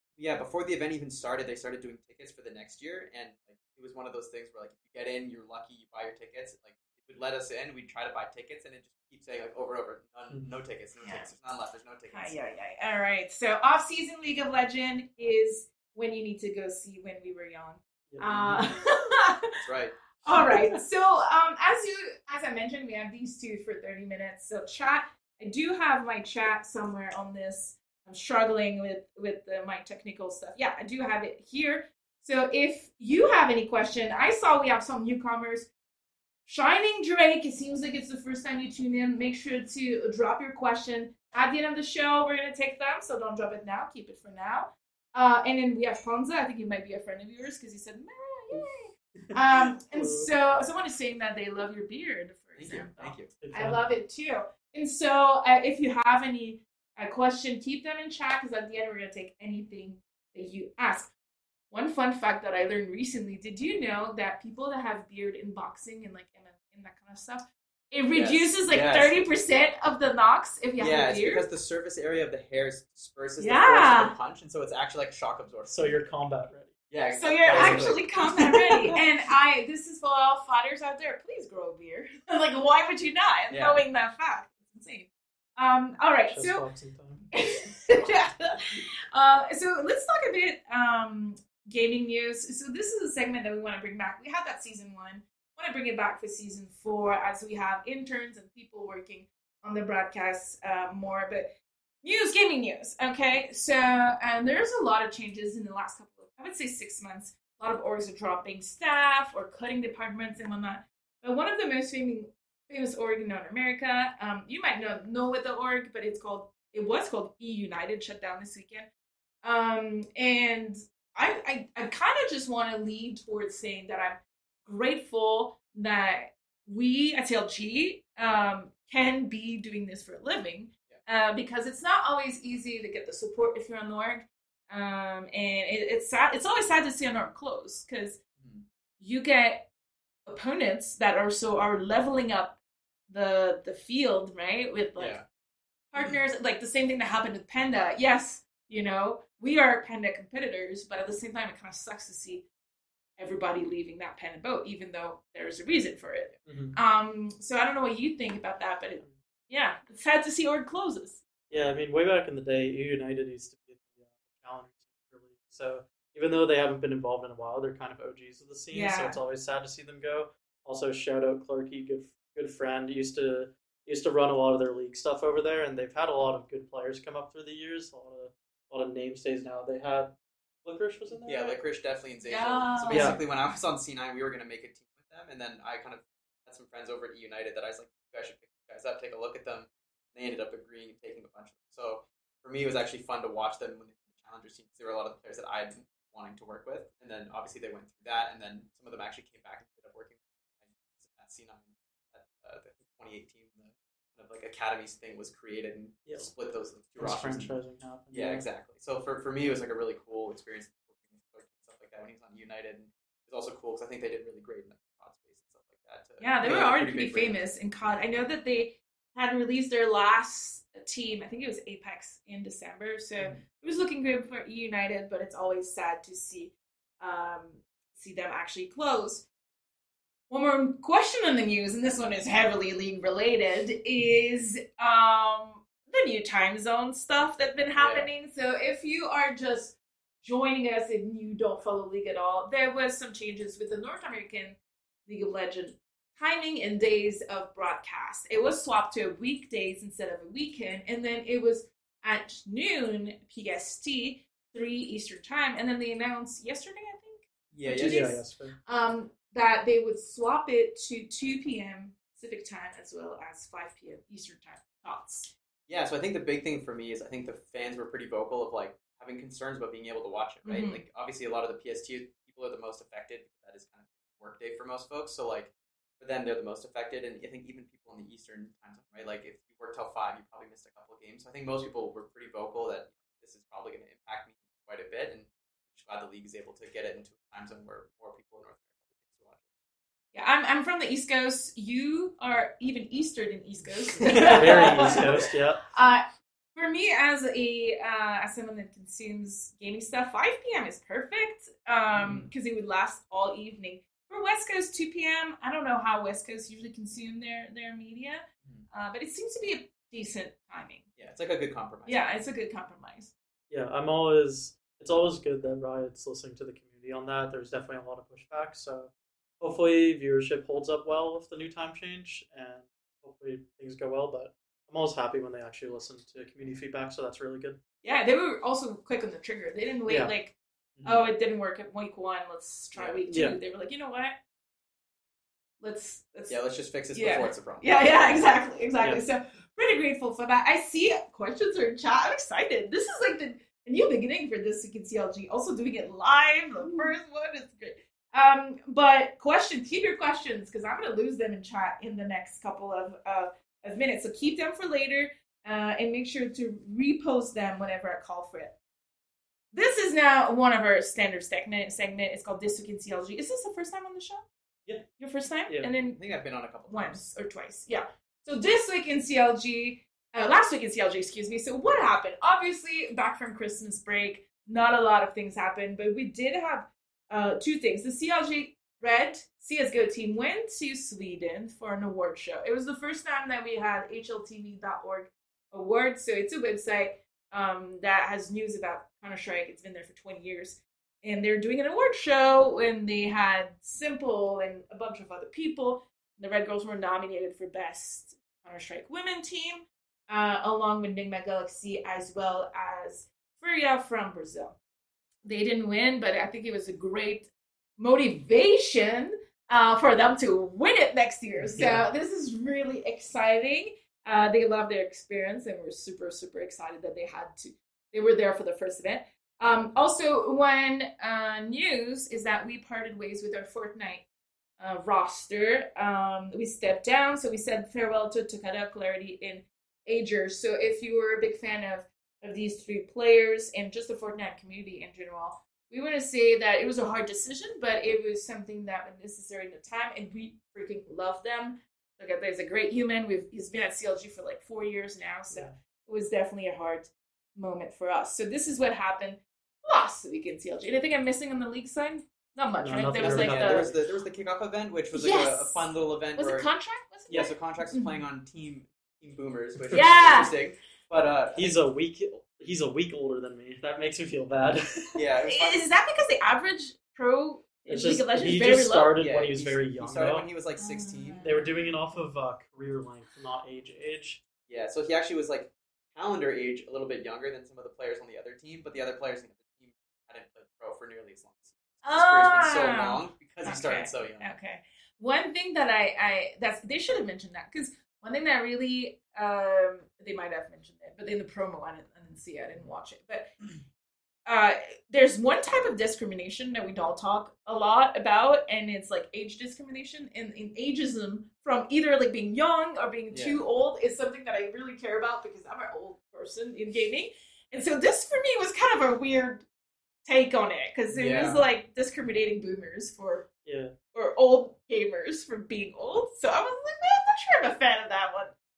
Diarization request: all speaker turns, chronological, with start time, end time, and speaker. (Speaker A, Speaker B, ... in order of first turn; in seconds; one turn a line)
Speaker A: 0.2-12.3
Speaker B: 11.0-11.4
Speaker B: 12.1-19.6
Speaker C: 18.1-18.7
Speaker A: 19.6-19.9
Speaker B: 20.2-35.7
Speaker B: 36.5-61.1
Speaker C: 49.7-50.3
Speaker A: 52.6-53.3
Speaker C: 53.4-53.8
Speaker B: 61.7-71.5
Speaker A: 68.1-69.1
Speaker A: 70.8-76.0
Speaker B: 73.4-74.1
Speaker C: 75.7-76.7
Speaker A: 76.9-78.1
Speaker B: 77.1-86.6
Speaker C: 77.5-78.0
Speaker A: 83.5-83.8
Speaker C: 86.3-87.3
Speaker B: 87.3-101.5
Speaker B: 102.0-118.9
Speaker B: 119.4-138.2
Speaker A: 138.4-138.6
Speaker B: 139.0-139.7
Speaker B: 140.2-145.2
Speaker A: 145.0-145.2
Speaker B: 145.9-152.4
Speaker B: 153.2-161.2
Speaker C: 156.5-156.8
Speaker C: 161.5-181.6
Speaker B: 168.7-169.2
Speaker A: 181.2-207.5
Speaker B: 182.2-183.2
Speaker C: 182.9-183.2
Speaker C: 206.1-206.3
Speaker C: 207.0-208.4
Speaker A: 208.1-217.4
Speaker B: 216.2-229.2
Speaker B: 230.3-265.3
Speaker A: 237.8-238.1
Speaker A: 257.5-258.2
Speaker C: 257.7-258.5
Speaker A: 265.7-289.4
Speaker B: 270.4-270.8
Speaker B: 290.1-296.0
Speaker C: 294.0-295.6
Speaker A: 294.2-294.9
Speaker B: 296.5-310.8
Speaker A: 301.9-302.3
Speaker A: 311.0-312.1
Speaker B: 311.9-313.1
Speaker C: 313.5-327.6
Speaker B: 327.8-334.1
Speaker A: 330.8-331.1
Speaker A: 332.7-333.0
Speaker C: 333.1-333.4
Speaker B: 335.6-336.3
Speaker A: 336.3-337.7
Speaker B: 336.9-358.5
Speaker B: 359.5-364.2
Speaker B: 365.0-366.0
Speaker A: 366.0-367.0
Speaker B: 366.7-404.6
Speaker B: 405.2-424.0
Speaker C: 411.4-411.8
Speaker B: 424.6-453.7
Speaker C: 452.6-453.8
Speaker A: 453.0-456.5
Speaker B: 454.9-458.0
Speaker A: 457.1-461.6
Speaker B: 459.7-460.3
Speaker C: 461.4-464.9
Speaker A: 464.9-465.6
Speaker B: 465.2-469.0
Speaker C: 467.7-470.2
Speaker A: 468.9-471.3
Speaker B: 470.6-471.7
Speaker C: 471.2-474.2
Speaker A: 474.5-484.3
Speaker B: 481.8-493.4
Speaker B: 494.2-509.4
Speaker A: 503.1-503.4
Speaker B: 510.0-513.2
Speaker A: 510.9-511.4
Speaker C: 513.4-513.7
Speaker B: 513.9-518.3